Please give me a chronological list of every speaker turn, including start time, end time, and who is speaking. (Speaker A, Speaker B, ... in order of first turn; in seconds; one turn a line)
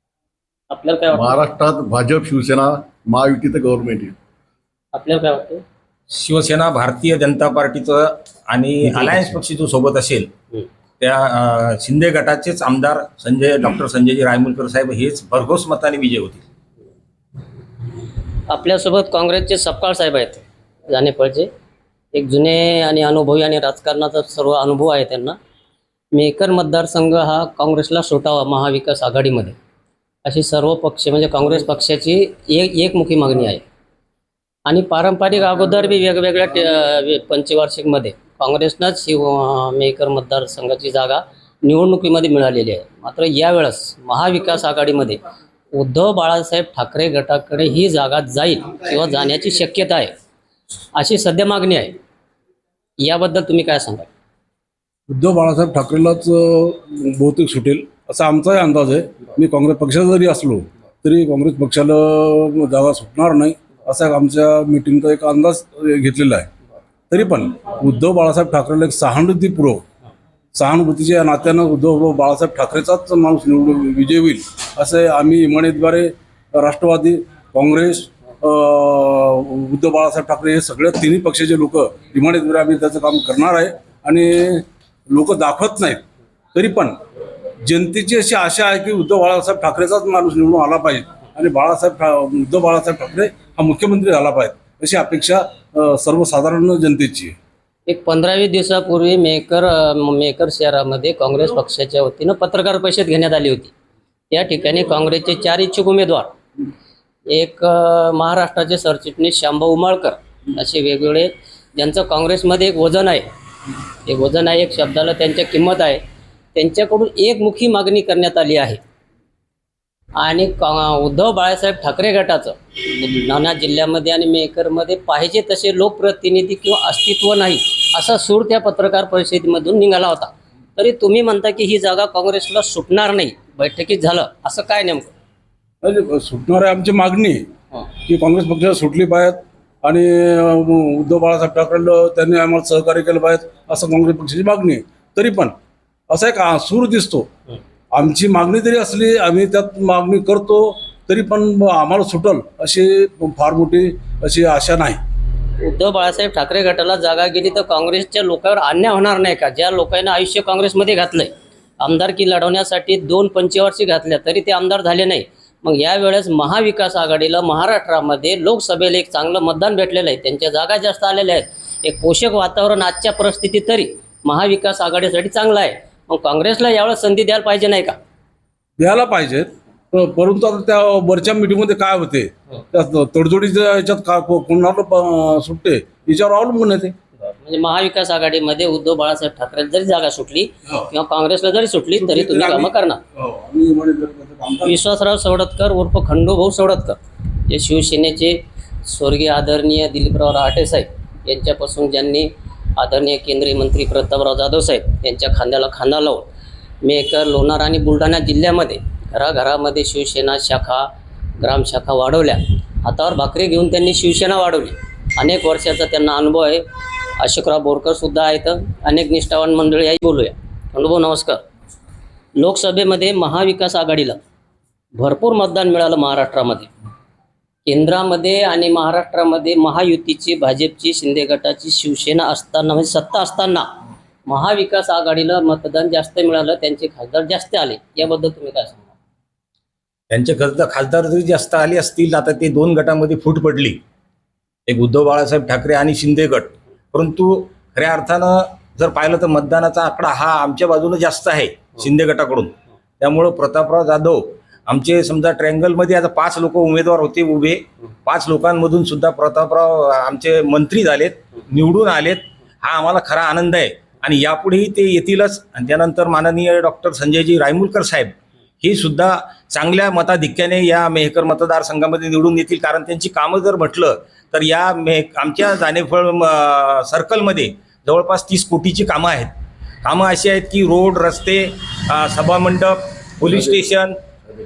Speaker A: 0.7-1.4
Speaker B: 1.1-4.1
Speaker A: 4.9-5.6
Speaker C: 6.1-10.3
Speaker C: 11.0-16.4
Speaker A: 18.5-21.5
Speaker A: 22.1-25.4
Speaker A: 26.1-29.6
Speaker A: 30.2-33.6
Speaker A: 34.7-45.2
Speaker A: 45.8-50.1
Speaker A: 50.9-52.0
Speaker A: 53.0-54.1
Speaker D: 55.1-66.5
Speaker D: 67.1-69.8
Speaker D: 70.5-87.0
Speaker D: 87.6-97.3
Speaker A: 97.9-103.7
Speaker A: 104.3-106.3
Speaker A: 107.3-113.3
Speaker A: 114.1-116.0
Speaker A: 116.5-118.8
Speaker A: 120.2-135.1
Speaker D: 135.8-137.5
Speaker D: 138.1-145.6
Speaker D: 146.1-147.3
Speaker D: 147.9-155.0
Speaker A: 155.6-178.0
Speaker D: 178.8-186.9
Speaker A: 187.4-193.0
Speaker D: 191.9-194.8
Speaker A: 194.6-206.3
Speaker A: 206.8-210.9
Speaker A: 211.4-216.6
Speaker A: 217.2-221.4
Speaker A: 222.4-224.2
Speaker A: 225.0-226.7
Speaker A: 227.7-233.7
Speaker A: 234.3-238.9
Speaker C: 240.1-243.8
Speaker C: 244.7-279.3
Speaker C: 279.8-284.0